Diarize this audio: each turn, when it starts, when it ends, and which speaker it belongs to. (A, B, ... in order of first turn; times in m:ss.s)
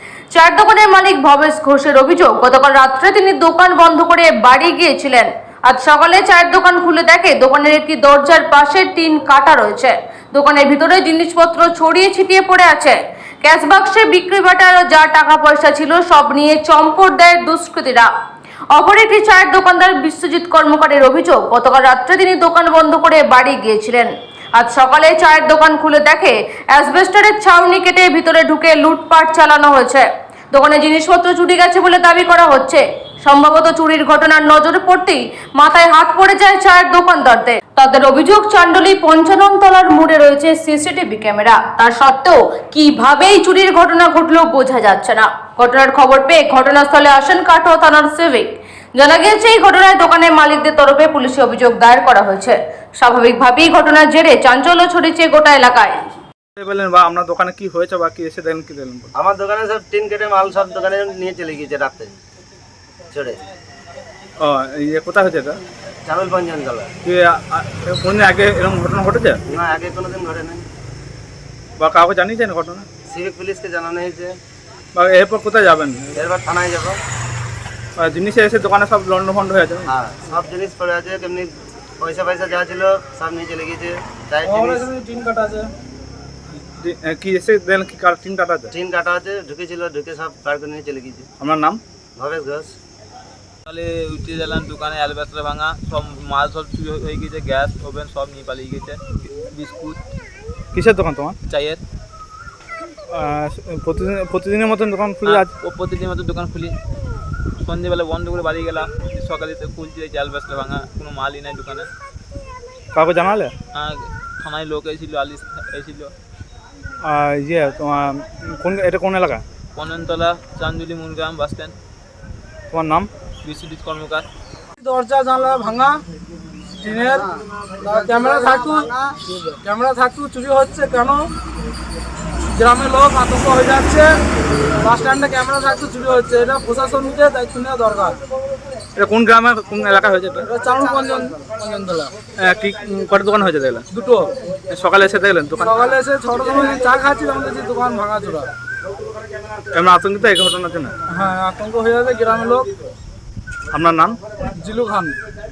0:00.3-0:18.1 A
0:18.7-0:56.0 A
0:56.6-0:59.1 B
0:59.2-1:02.2 C
1:03.1-1:03.4 C
1:04.4-1:05.6 B
1:06.0-1:06.9 C
1:07.0-1:09.4 B
1:09.5-1:10.6 C
1:11.8-1:12.9 B
1:13.1-1:14.4 C
1:14.9-1:16.1 B
1:16.1-1:17.0 C
1:18.0-1:19.9 B
1:19.9-1:24.9 C
1:24.4-1:25.7 D
1:26.6-1:28.7 B
1:28.7-1:31.3 C
1:31.4-1:31.8 B
1:32.2-1:32.7 C
1:33.7-1:40.0 E
1:40.7-1:41.4 B
1:41.5-1:41.8 E
1:43.1-1:45.5 B
1:45.2-1:46.7 E
1:47.6-1:51.9 E
1:52.9-1:53.5 B
1:53.7-1:56.1 E
1:57.0-1:59.4 B
1:59.8-2:01.8 E
2:02.7-2:03.1 B
2:03.4-2:04.2 E
2:04.8-2:06.0 D
2:06.8-2:07.3 D
2:07.3-2:09.2 C
2:07.8-2:11.3 D
2:12.6-2:14.2 D
2:14.8-2:18.2 D
2:19.0-2:20.4 B
2:20.5-2:22.1 D
2:22.4-2:23.8 B
2:23.9-2:24.3 D
2:24.7-2:25.8 B
2:25.6-2:28.5 D
2:29.7-2:30.9 B
2:31.1-2:32.7 D
2:33.7-2:34.2 B
2:34.6-2:35.2 D